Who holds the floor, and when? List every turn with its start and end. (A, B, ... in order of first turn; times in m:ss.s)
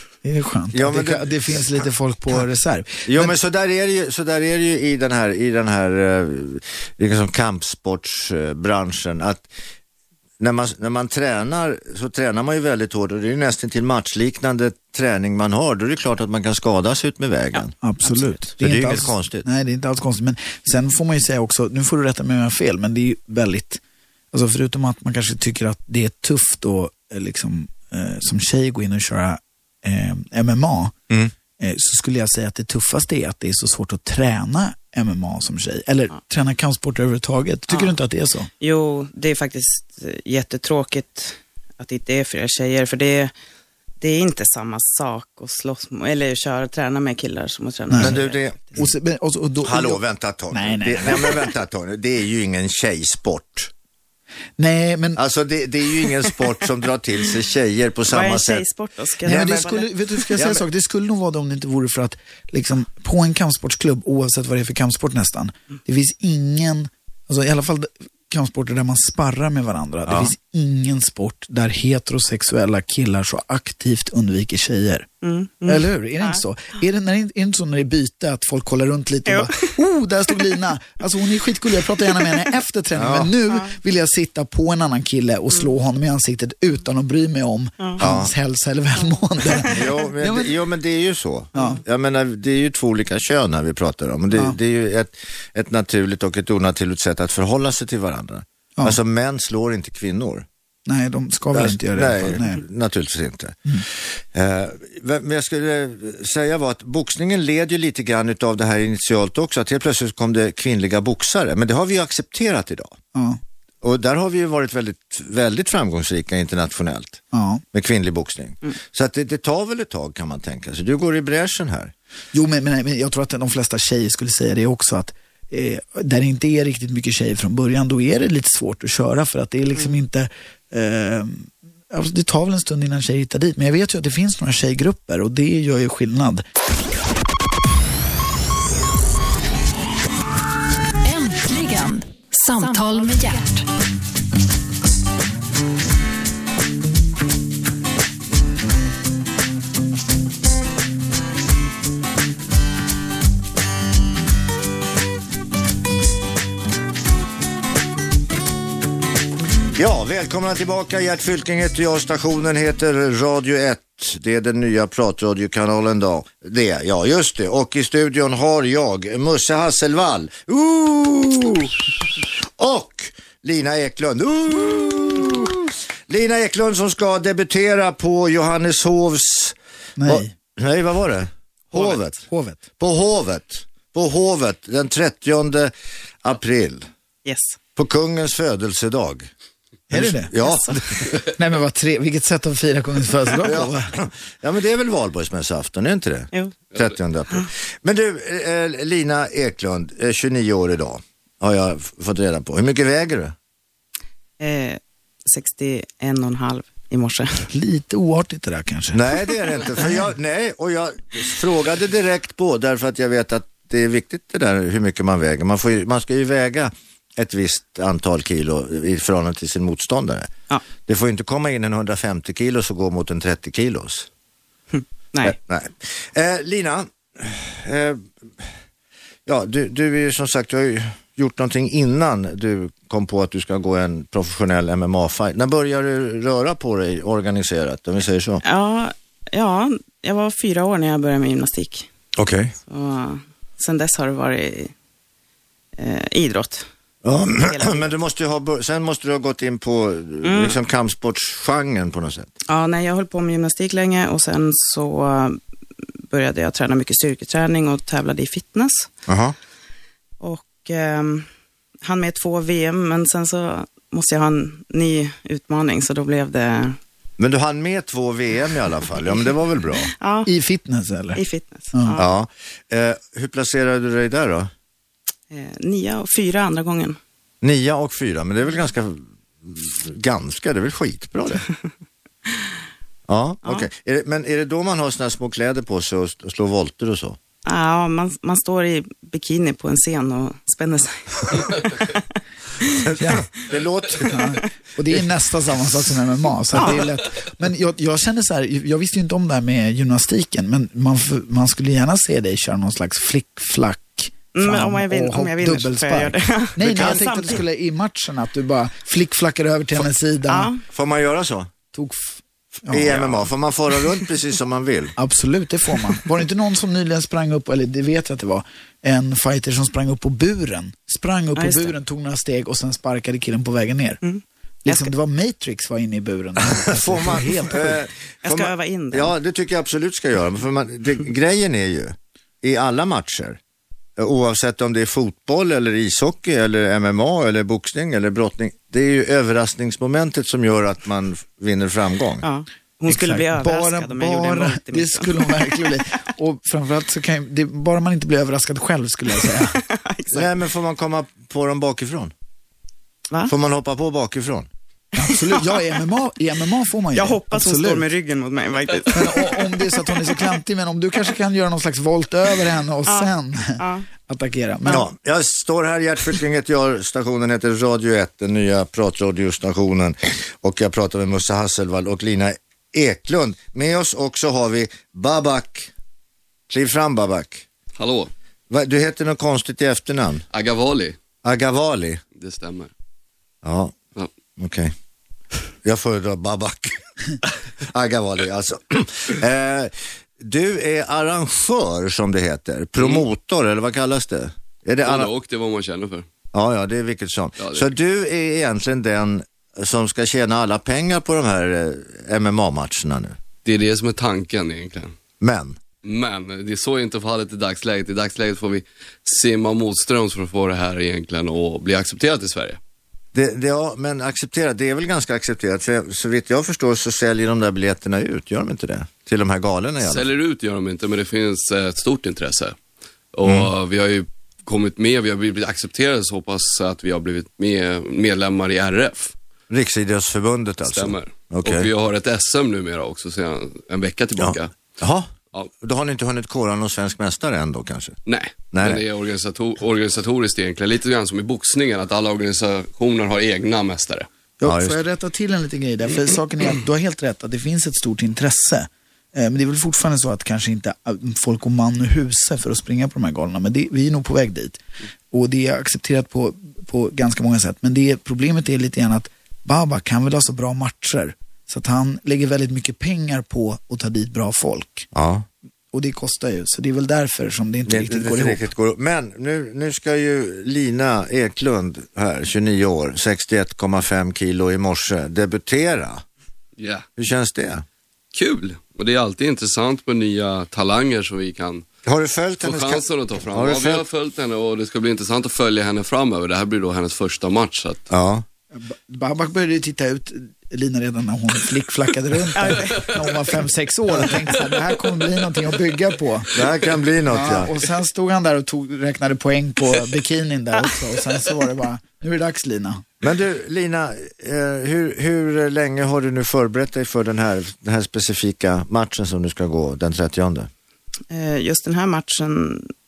0:00.2-0:03.4 A
0:00.7-0:01.3 B
0:03.0-0:09.5 B
0:10.4-0:17.7 B
0:17.8-0:23.8 A
0:18.6-0:19.4 B
0:24.3-0:30.9 A
0:31.6-0:38.5 A
0:37.7-0:38.0 C
0:38.6-0:43.3 C
0:44.0-0:48.8 C
0:47.9-0:48.2 A
0:48.0-0:48.8 B
0:48.8-0:51.3 A
0:49.6-0:53.7 B
0:54.6-0:55.2 A
0:55.2-0:58.6 B
0:58.1-1:00.2 C
0:59.2-0:59.6 B
0:59.2-1:15.0 A
1:00.4-1:00.6 B
1:10.1-1:10.3 B
1:15.2-1:16.4 C
1:15.6-1:30.5 A
1:19.3-1:19.6 C
1:22.9-1:23.3 B
1:28.0-1:28.3 B
1:29.4-1:29.9 C
1:29.6-1:40.5 B
1:40.9-1:42.6 A
1:41.5-1:53.0 B
1:53.1-1:53.4 A
1:53.8-1:57.2 B
1:57.3-1:57.6 A
1:57.7-2:01.9 B
2:02.3-2:16.4 A
2:21.0-2:23.7 D
2:39.7-3:02.2 B
3:00.0-3:00.3 A
3:02.2-3:02.6 A
3:02.8-3:06.9 B
3:07.2-3:07.6 C
3:07.8-3:09.3 B
3:09.9-3:11.1 B
3:09.9-3:10.3 A
3:10.4-3:11.1 C
3:11.3-3:13.9 A
3:13.4-3:23.3 B
3:24.4-3:27.5 C
3:27.5-3:29.0 A
3:28.9-3:40.3 B
3:40.8-3:44.1 B
3:44.7-3:45.4 C
3:45.2-3:48.5 B
3:49.2-3:58.4 B
3:58.4-4:01.9 C
4:02.1-4:02.6 B
4:02.7-4:04.7 C
4:05.8-4:06.7 C
4:07.0-4:12.3 B
4:07.4-4:07.9 C
4:10.2-4:10.6 C
4:12.5-4:15.4 C
4:16.1-4:18.9 C
4:19.1-4:19.3 B
4:20.2-4:21.3 C
4:21.8-4:26.8 C
4:27.2-4:29.9 B
4:29.9-4:30.3 C
4:30.2-4:31.2 A
4:31.1-4:32.1 C
4:32.0-4:34.5 B
4:35.3-4:37.0 C
4:37.4-4:41.4 B
4:43.1-4:47.2 B
4:47.4-4:52.0 C
4:52.8-4:54.2 B
4:53.0-4:53.3 A
4:54.0-5:10.5 A
4:56.5-4:56.9 C
5:04.3-5:07.4 C
5:06.6-5:07.0 B
5:10.3-5:10.6 C
5:10.7-5:11.5 B
5:11.7-5:13.0 A
5:12.7-5:14.9 B
5:12.9-5:13.2 C
5:15.0-5:24.0 A
5:21.4-5:21.7 C
5:24.0-5:24.9 C
5:24.6-5:27.8 A
5:26.4-5:33.4 B
5:28.2-5:29.1 C
5:34.0-5:42.2 B
5:42.2-5:45.8 C
5:42.9-5:49.6 A
5:49.5-5:50.3 C
5:50.1-5:52.1 B
5:53.3-5:54.5 B
5:54.9-5:57.8 A
5:55.1-5:55.6 C
5:56.9-6:00.2 C
5:58.9-6:04.8 A
6:02.8-6:03.9 C
6:04.7-6:15.7 B
6:16.5-6:17.4 B
6:17.8-6:18.1 E
6:18.5-6:20.2 B
6:20.3-6:21.0 E
6:21.2-6:22.0 B
6:22.1-6:22.7 E
6:23.4-6:23.8 B
6:24.4-6:24.7 B
6:25.6-6:26.8 B
6:27.7-6:35.1 B
6:32.8-6:33.0 E
6:34.8-6:36.0 E
6:36.3-6:43.2 B
6:37.4-6:37.6 E
6:43.4-6:44.9 E
6:45.2-6:45.6 B
6:45.8-6:52.6 E
6:53.1-7:00.0 B
6:59.8-7:02.6 E
7:03.1-7:09.2 E
7:03.2-7:03.5 B
7:09.5-7:11.7 B
7:10.6-7:14.6 E
7:14.2-7:18.0 B
7:18.0-7:24.1 E
7:18.5-7:18.8 B
7:24.4-7:34.6 A
7:24.4-7:24.8 B
7:35.1-7:44.9 A
7:44.9-7:45.3 B
7:45.7-7:48.5 A
7:47.7-7:56.0 B
7:56.6-7:56.8 E
7:57.0-7:57.6 B
7:58.1-8:01.6 E
8:01.8-8:03.8 B
8:02.4-8:07.9 E
8:07.9-8:08.2 B
8:08.5-8:16.3 A
8:12.4-8:13.2 C
8:16.3-8:17.5 B
8:17.1-8:22.8 A
8:23.0-8:30.5 B
8:31.1-8:32.7 C